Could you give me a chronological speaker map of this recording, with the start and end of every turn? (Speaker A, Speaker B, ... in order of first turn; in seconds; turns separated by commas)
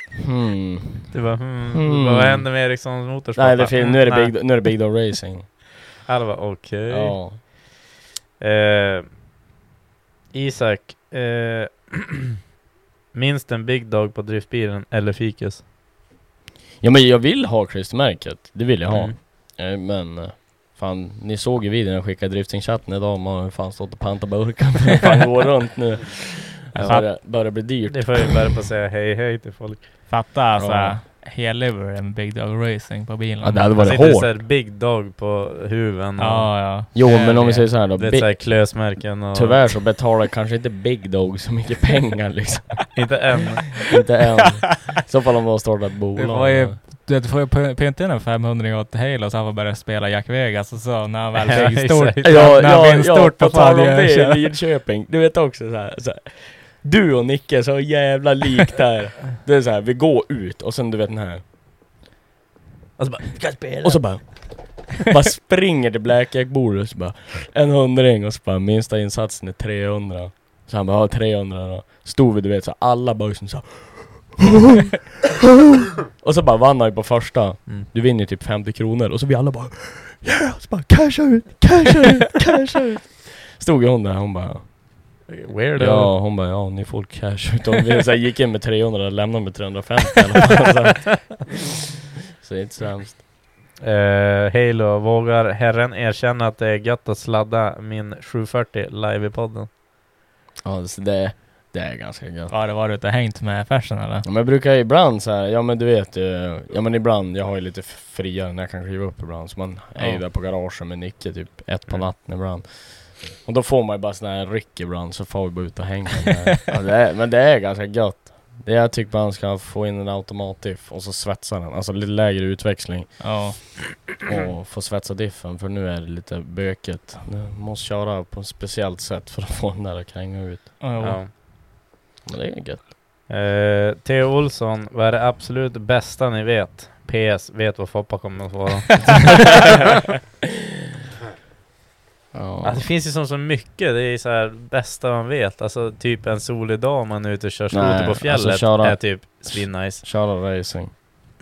Speaker A: 0.2-2.8, Speaker B: 1.1-4.8, Speaker A: 3.3-5.5, Speaker B: 6.1-7.7, Speaker A: 6.9-7.4, Speaker B: 8.4-9.1, Speaker B: 10.3-12.1, Speaker B: 13.1-15.6, Speaker A: 16.8-28.4, Speaker B: 18.9-19.2, Speaker B: 26.8-27.2, Speaker C: 26.8-27.1, Speaker B: 27.9-29.9, Speaker C: 30.1-33.8, Speaker A: 30.6-31.0, Speaker A: 33.4-34.4, Speaker B: 33.8-37.1, Speaker C: 36.2-37.6, Speaker A: 36.9-43.0, Speaker B: 37.6-39.7, Speaker B: 42.9-43.8, Speaker A: 43.9-46.8, Speaker C: 46.1-54.5, Speaker B: 51.4-52.5, Speaker A: 52.2-61.4, Speaker B: 63.0-64.5, Speaker A: 63.8-75.0, Speaker A: 76.2-85.1, Speaker B: 85.3-86.1, Speaker A: 85.8-91.6, Speaker A: 92.4-93.2, Speaker B: 93.8-99.7, Speaker A: 100.6-102.5, Speaker C: 102.5-104.2, Speaker A: 104.2-130.8, Speaker C: 110.0-110.2, Speaker C: 123.2-123.8, Speaker C: 130.8-131.2, Speaker B: 131.0-131.3, Speaker A: 132.2-132.9, Speaker B: 133.3-139.6, Speaker A: 142.3-142.9, Speaker B: 142.6-150.0, Speaker A: 147.7-151.0